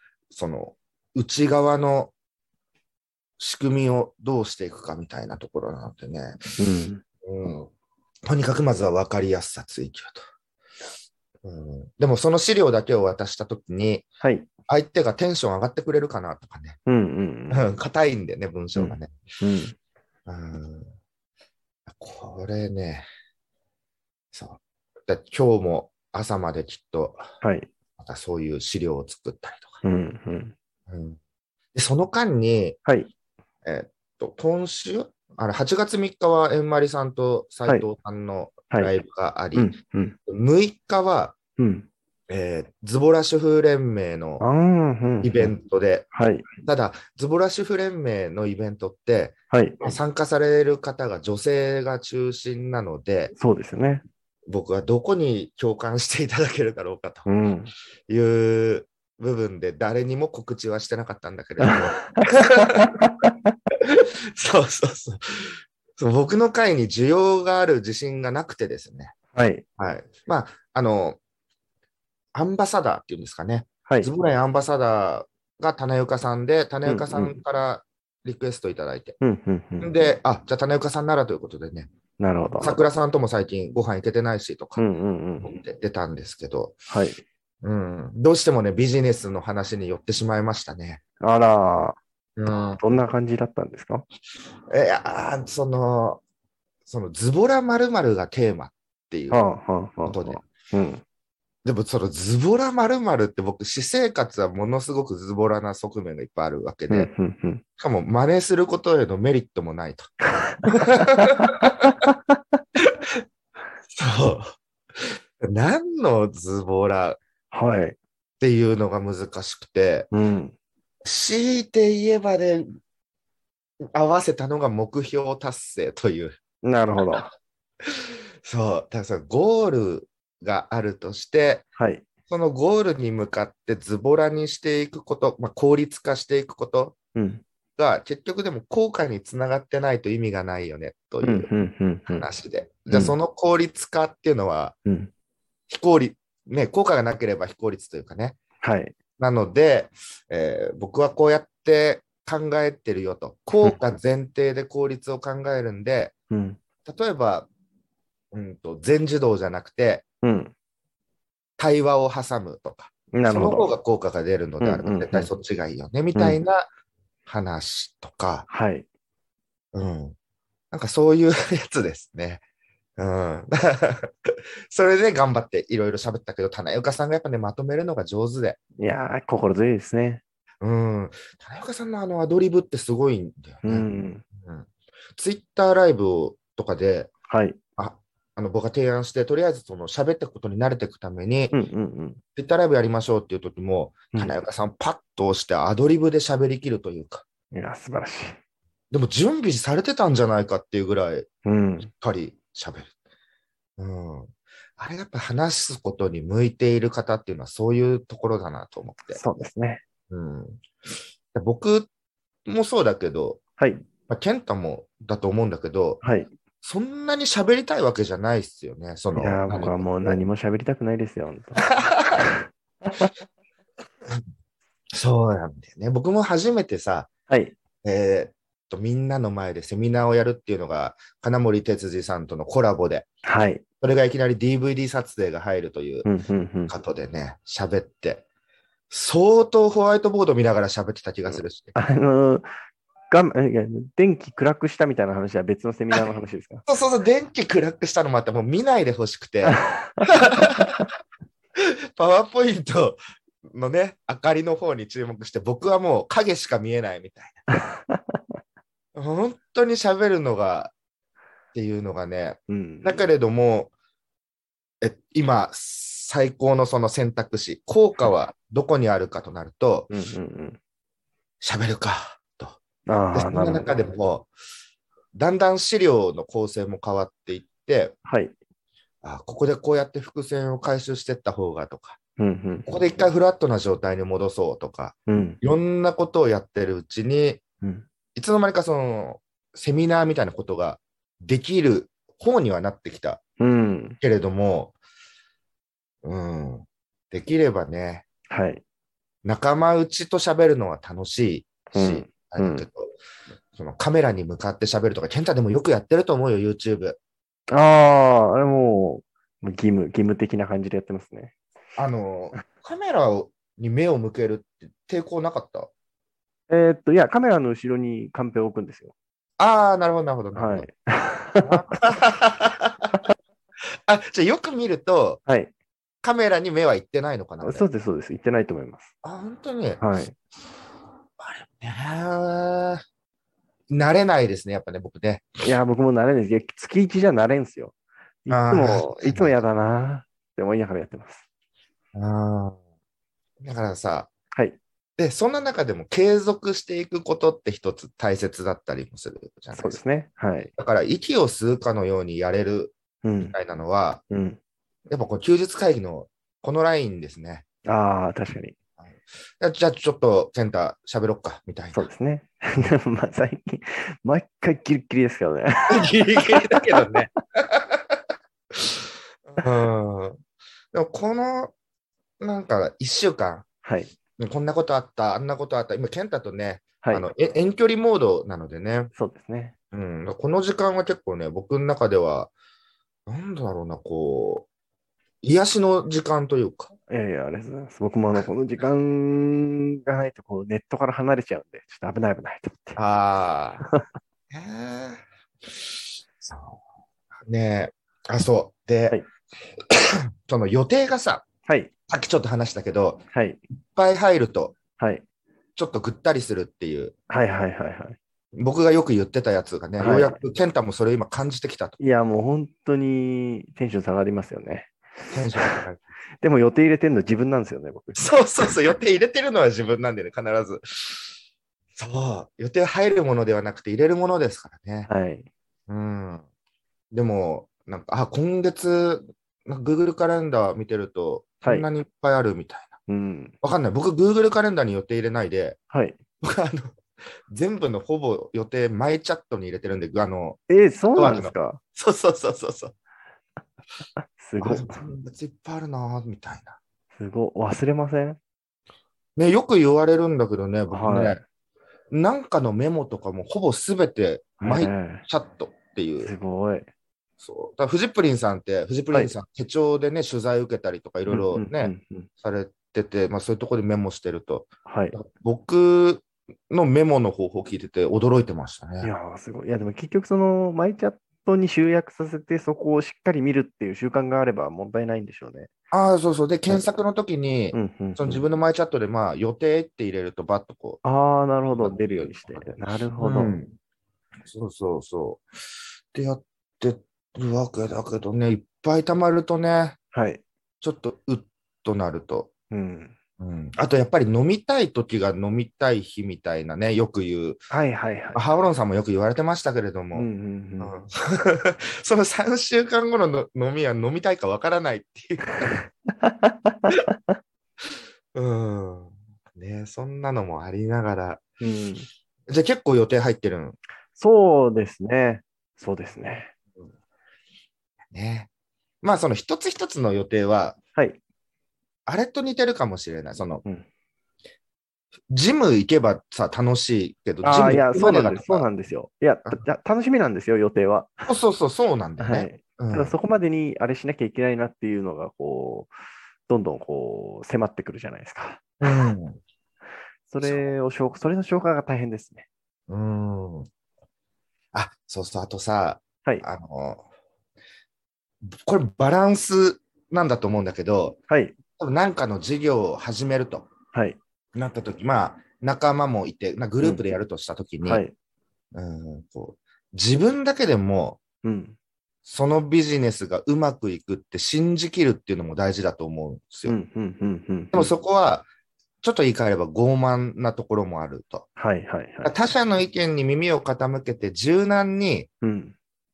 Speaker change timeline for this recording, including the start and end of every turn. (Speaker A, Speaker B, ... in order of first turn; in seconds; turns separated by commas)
Speaker A: 0.3-2.1, Speaker A: 3.4-6.5, Speaker B: 6.6-7.0, Speaker A: 7.2-7.7, Speaker A: 8.3-10.2, Speaker A: 11.4-14.1, Speaker B: 14.2-14.5, Speaker A: 14.7-16.8, Speaker B: 16.9-17.7, Speaker A: 17.5-19.1, Speaker B: 18.8-19.8, Speaker A: 20.3-20.9, Speaker A: 21.9-23.1, Speaker A: 24.3-27.3, Speaker B: 27.4-27.7, Speaker A: 28.0-29.8, Speaker B: 29.8-30.6, Speaker A: 30.9-31.2, Speaker A: 31.7-32.8, Speaker B: 32.9-33.1, Speaker A: 33.6-39.8, Speaker B: 39.5-40.2, Speaker A: 40.3-41.4, Speaker B: 41.6-41.9, Speaker A: 42.3-44.4, Speaker B: 44.4-45.5, Speaker A: 45.2-46.1, Speaker B: 46.1-46.5, Speaker A: 46.6-53.3, Speaker B: 49.5-50.0, Speaker B: 53.4-54.0, Speaker A: 54.5-57.3, Speaker B: 57.3-57.7, Speaker A: 58.1-62.9, Speaker B: 61.6-63.5, Speaker A: 63.8-69.2, Speaker B: 69.3-69.7, Speaker A: 69.8-71.2, Speaker A: 72.3-79.2, Speaker B: 73.9-74.1, Speaker B: 76.8-77.4, Speaker B: 79.2-79.9, Speaker A: 79.8-81.9, Speaker B: 82.2-82.8, Speaker A: 82.6-84.8, Speaker B: 84.8-85.6, Speaker A: 85.4-86.8, Speaker B: 86.9-87.2, Speaker A: 87.6-91.0, Speaker B: 91.2-92.0, Speaker A: 92.4-92.8, Speaker B: 92.8-94.0, Speaker A: 94.7-96.2, Speaker A: 96.9-99.4, Speaker B: 99.3-101.0, Speaker A: 100.0-100.4, Speaker A: 101.6-107.1, Speaker B: 106.9-107.6, Speaker A: 107.8-110.1, Speaker B: 110.3-112.4, Speaker A: 110.7-111.9, Speaker A: 112.8-113.2, Speaker A: 114.0-117.2, Speaker B: 117.5-118.0, Speaker A: 118.4-120.1, Speaker B: 120.1-120.5, Speaker A: 121.0-122.7, Speaker A: 123.8-126.4, Speaker B: 126.6-127.3, Speaker A: 127.0-127.3, Speaker A: 127.8-131.7, Speaker B: 131.8-132.1, Speaker A: 132.3-137.0, Speaker B: 137.2-137.4, Speaker A: 137.8-141.5, Speaker B: 141.2-142.3, Speaker A: 142.1-144.8, Speaker B: 142.9-143.2, Speaker B: 144.8-145.1, Speaker A: 145.7-148.4, Speaker B: 148.6-148.9, Speaker A: 149.2-156.1, Speaker B: 156.3-156.6, Speaker A: 156.8-157.5, Speaker A: 158.3-160.0, Speaker B: 160.2-160.5, Speaker A: 161.6-166.7, Speaker B: 163.1-163.7, Speaker B: 164.6-165.3, Speaker B: 166.2-166.4, Speaker A: 167.3-168.5, Speaker B: 168.5-168.9, Speaker A: 169.7-170.2, Speaker A: 170.7-172.4, Speaker A: 173.0-178.6, Speaker B: 178.8-180.2, Speaker A: 180.6-183.9, Speaker B: 183.6-184.2, Speaker A: 184.4-187.1, Speaker B: 187.3-187.6, Speaker A: 187.8-191.6, Speaker B: 191.5-192.2, Speaker A: 192.4-197.2, Speaker B: 197.5-198.4, Speaker A: 198.9-201.3, Speaker B: 201.4-201.9, Speaker A: 201.9-202.9, Speaker A: 203.8-209.2, Speaker B: 209.1-209.8, Speaker A: 210.1-210.6, Speaker A: 211.3-211.9, Speaker A: 212.5-213.4, Speaker B: 213.6-213.8, Speaker A: 214.1-216.0, Speaker B: 216.0-216.3, Speaker A: 216.6-220.2, Speaker B: 219.2-223.1, Speaker A: 221.7-222.2, Speaker A: 224.9-227.1, Speaker B: 227.3-227.6, Speaker A: 227.8-233.1, Speaker B: 233.2-233.6, Speaker A: 233.8-236.1, Speaker B: 236.1-236.7, Speaker A: 236.7-238.2, Speaker A: 238.9-241.7, Speaker B: 241.8-242.5, Speaker B: 243.1-246.7, Speaker A: 246.7-250.8, Speaker B: 249.4-250.2, Speaker A: 251.6-257.4, Speaker B: 257.5-258.2, Speaker A: 258.9-260.7, Speaker A: 261.5-263.7, Speaker B: 262.5-263.0, Speaker A: 264.8-269.9, Speaker B: 269.9-270.6, Speaker A: 271.4-272.6, Speaker B: 272.9-273.8, Speaker A: 273.1-274.3, Speaker A: 275.1-278.0, Speaker B: 278.1-278.4, Speaker A: 279.0-282.0, Speaker B: 282.2-282.7, Speaker A: 282.7-287.4, Speaker B: 285.1-285.4, Speaker B: 287.6-287.9, Speaker A: 288.1-293.2, Speaker B: 293.4-294.0, Speaker A: 294.0-294.8, Speaker A: 296.0-298.1, Speaker B: 298.3-298.6, Speaker A: 299.2-302.9, Speaker B: 301.7-302.7, Speaker A: 303.5-307.0, Speaker B: 307.5-311.4, Speaker A: 311.8-315.7, Speaker B: 316.5-318.9, Speaker A: 319.4-320.7, Speaker B: 320.3-321.9, Speaker A: 321.4-323.0, Speaker A: 323.9-325.2, Speaker B: 325.3-325.5, Speaker A: 326.0-327.6, Speaker B: 327.4-328.9, Speaker A: 329.0-329.8, Speaker B: 329.8-330.2, Speaker A: 331.2-332.8, Speaker A: 333.7-335.3, Speaker B: 335.4-337.7, Speaker B: 338.2-341.2, Speaker A: 338.3-339.3, Speaker A: 341.9-342.6, Speaker A: 343.4-344.1, Speaker A: 345.0-349.8, Speaker B: 349.5-350.5, Speaker A: 350.6-354.0, Speaker B: 353.0-353.4, Speaker B: 354.1-354.4, Speaker A: 354.9-357.4, Speaker B: 357.6-358.6, Speaker A: 358.8-361.9, Speaker B: 361.7-367.0, Speaker A: 365.7-368.0, Speaker A: 368.5-370.2, Speaker A: 370.7-371.5, Speaker A: 372.2-373.5, Speaker B: 373.6-373.9, Speaker A: 374.2-378.9, Speaker B: 376.8-377.1, Speaker B: 378.9-379.5, Speaker A: 379.7-382.3, Speaker A: 383.1-384.5, Speaker A: 385.2-386.7, Speaker B: 386.9-392.8, Speaker A: 392.8-393.7, Speaker A: 394.3-396.6, Speaker A: 397.2-399.0, Speaker A: 399.7-401.3, Speaker B: 401.5-401.7, Speaker A: 401.9-403.0, Speaker B: 403.1-403.4, Speaker A: 403.7-404.6, Speaker B: 404.8-405.1, Speaker A: 405.6-406.9, Speaker B: 407.1-408.0, Speaker A: 408.3-411.8, Speaker B: 409.8-410.2, Speaker B: 411.8-415.6, Speaker A: 415.1-415.8, Speaker B: 416.2-418.1, Speaker A: 418.0-421.1, Speaker A: 421.8-424.9, Speaker B: 424.9-425.3, Speaker A: 425.7-426.2, Speaker A: 426.9-432.8, Speaker B: 432.9-433.3, Speaker A: 433.4-435.6, Speaker B: 435.7-436.0, Speaker A: 436.2-440.4, Speaker B: 440.5-441.6, Speaker A: 440.9-442.8, Speaker B: 444.2-444.9, Speaker A: 444.4-446.6, Speaker B: 447.0-448.2, Speaker A: 449.2-451.2, Speaker B: 450.7-451.2, Speaker A: 451.9-456.1, Speaker B: 454.4-455.1, Speaker B: 456.0-456.7, Speaker A: 457.2-468.9, Speaker B: 461.1-462.1, Speaker B: 464.7-465.0, Speaker B: 468.8-475.5, Speaker A: 475.7-480.8, Speaker B: 477.5-478.2, Speaker B: 480.8-483.4, Speaker A: 481.5-482.4, Speaker A: 483.0-483.6, Speaker A: 484.3-485.2, Speaker A: 485.9-489.8, Speaker B: 489.9-490.2, Speaker A: 490.6-492.3, Speaker B: 492.5-493.0, Speaker A: 493.2-497.4, Speaker B: 497.5-498.2, Speaker A: 498.1-500.1, Speaker B: 499.9-500.8, Speaker A: 500.6-505.6, Speaker B: 505.4-507.1, Speaker A: 508.1-511.2, Speaker B: 511.4-511.9, Speaker A: 512.3-513.6, Speaker B: 514.0-516.3, Speaker A: 517.9-518.3, Speaker A: 518.8-520.6, Speaker B: 520.8-521.0, Speaker A: 521.9-523.4, Speaker A: 525.1-528.5, Speaker B: 527.2-531.1, Speaker A: 531.1-532.9, Speaker B: 532.0-535.7, Speaker B: 536.3-538.9, Speaker A: 538.6-539.2, Speaker B: 540.1-542.3, Speaker A: 542.7-543.5, Speaker A: 544.5-546.8, Speaker A: 548.3-551.0, Speaker B: 551.1-551.4, Speaker A: 551.6-553.5, Speaker B: 553.7-554.0, Speaker A: 554.4-557.8, Speaker B: 557.6-557.9, Speaker A: 558.5-561.0, Speaker B: 561.2-561.6, Speaker A: 562.0-566.6, Speaker B: 566.5-567.7, Speaker A: 567.5-568.3, Speaker A: 568.8-571.3, Speaker B: 571.4-572.1, Speaker A: 572.0-575.1, Speaker B: 575.2-575.5